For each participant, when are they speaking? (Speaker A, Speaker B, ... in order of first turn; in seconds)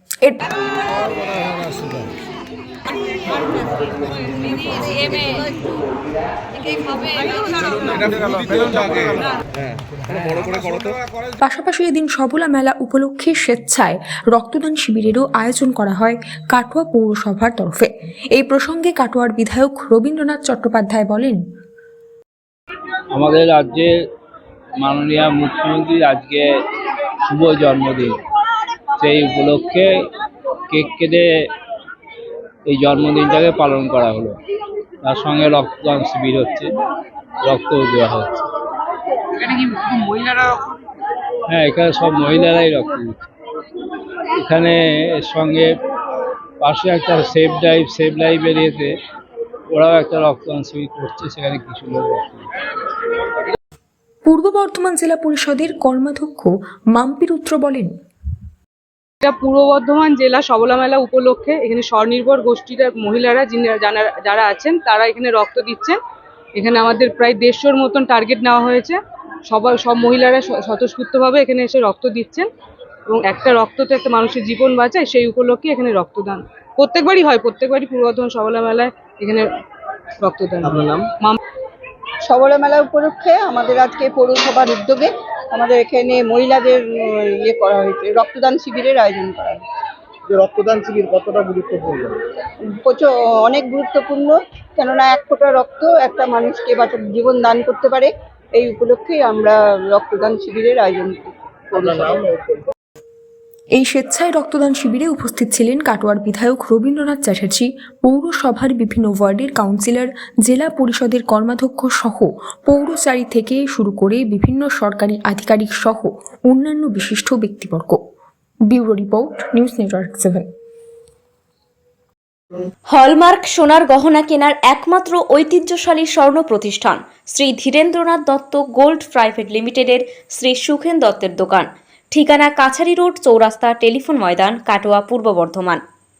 Speaker A: 8.4-8.7, 80.7-81.0, 90.3-92.1, 101.8-102.6
Speaker B: 11.4-21.4, 54.2-57.9, 103.8-118.0, 118.7-120.5
Speaker C: 23.1-23.9, 24.8-26.4, 27.3-28.2, 29.0-29.9, 30.7-31.3, 32.7-34.4, 35.0-36.7, 37.4-38.4, 41.5-43.2, 44.4-45.7, 46.6-49.0, 49.7-52.5
Speaker D: 39.5-40.5, 59.2-66.0, 66.6-69.0, 69.5-72.5, 73.1-79.5, 80.2-81.4
Speaker E: 82.2-89.6, 92.8-102.2
Speaker F: 122.9-135.8